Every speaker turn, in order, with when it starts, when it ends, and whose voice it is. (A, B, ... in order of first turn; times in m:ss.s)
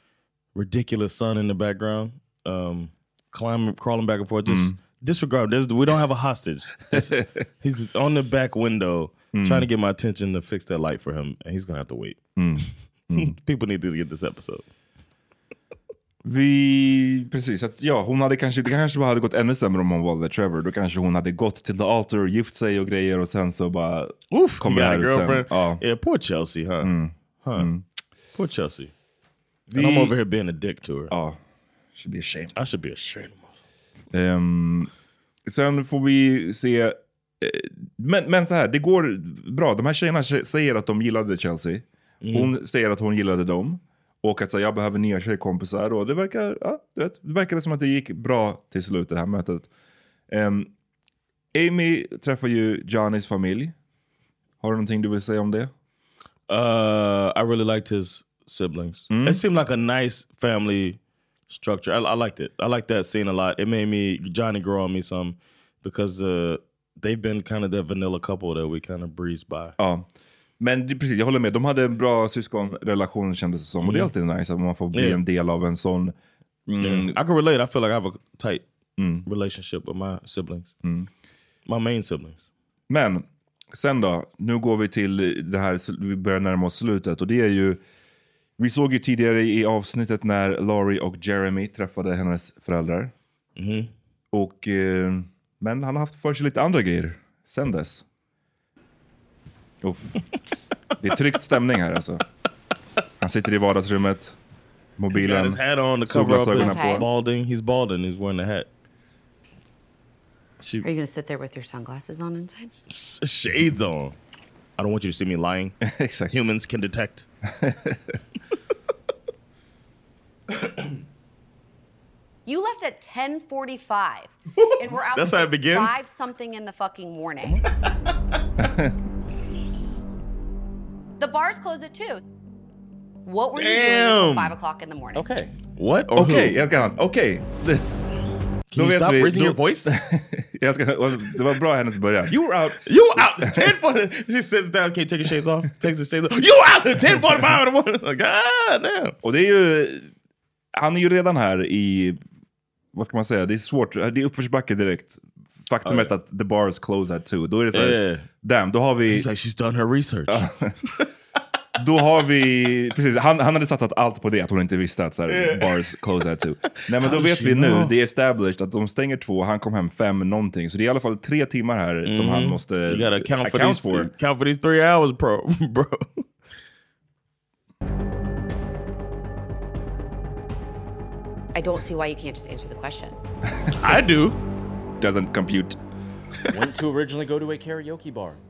0:00.6-0:12.2 A
0:04.4-0:04.8 B
0:06.9-0:07.3 B
0:09.3-0:09.7 B
0:12.4-0:13.3 B
0:13.2-0:14.6 A
0:16.2-0:25.8 B
0:24.3-0:26.9 A
0:26.8-0:27.8 B
0:27.4-0:27.7 A
0:28.4-0:28.9 A
0:29.7-0:30.1 B
0:29.7-0:31.1 A
0:31.1-0:31.4 B
0:32.0-0:32.5 B
0:32.6-0:33.5 A
0:34.1-0:34.9 B
0:35.5-0:49.7 B
0:42.2-0:42.5 A
0:50.3-0:50.7 B
0:51.5-0:53.8 B
0:54.6-0:55.7 B
0:56.5-1:09.7 A
0:59.1-0:59.4 B
1:09.8-1:10.0 B
1:10.6-1:16.2 B
1:13.8-1:14.1 A
1:14.9-1:15.2 A
1:16.7-1:17.1 B
1:16.8-1:18.6 A
1:19.0-1:19.2 B
1:19.3-1:20.7 A
1:20.8-1:21.1 B
1:21.7-1:22.4 A
1:22.9-1:27.8 B
1:28.6-1:33.1 B
1:33.6-1:33.9 A
1:34.3-1:38.0 B
1:39.8-1:40.2 B
1:41.0-1:42.2 B
1:43.2-1:44.4 B
1:45.0-1:47.1 B
1:45.1-1:48.7 A
1:46.4-1:47.1 C
1:50.8-1:52.7 C
1:52.9-1:54.2 A
1:54.8-1:55.8 A
1:55.8-1:56.3 B
1:56.3-1:57.3 A
1:57.6-1:58.2 B
2:02.5-2:07.6 C
2:04.6-2:06.0 A
2:08.6-2:09.0 B
2:11.2-2:12.2 C
2:13.2-2:15.3 C
2:13.5-2:14.6 A
2:15.1-2:15.5 D
2:15.8-2:16.6 A
2:16.2-2:17.8 B
2:18.7-2:20.0 A
2:18.7-2:23.7 B
2:22.8-2:29.2 A
2:29.2-2:30.1 B
2:30.8-2:32.2 B
2:32.9-2:39.3 B
2:35.8-2:36.1 A
2:37.7-2:38.3 A
2:39.1-2:40.5 A
2:40.3-2:40.8 B
2:41.8-2:54.1 B
2:45.3-2:45.9 A
2:46.9-2:48.0 A
2:52.0-2:56.2 A
3:01.5-3:03.2 C
3:03.7-3:04.0 B
3:03.8-3:04.4 A
3:05.0-3:05.8 B
3:06.5-3:08.4 D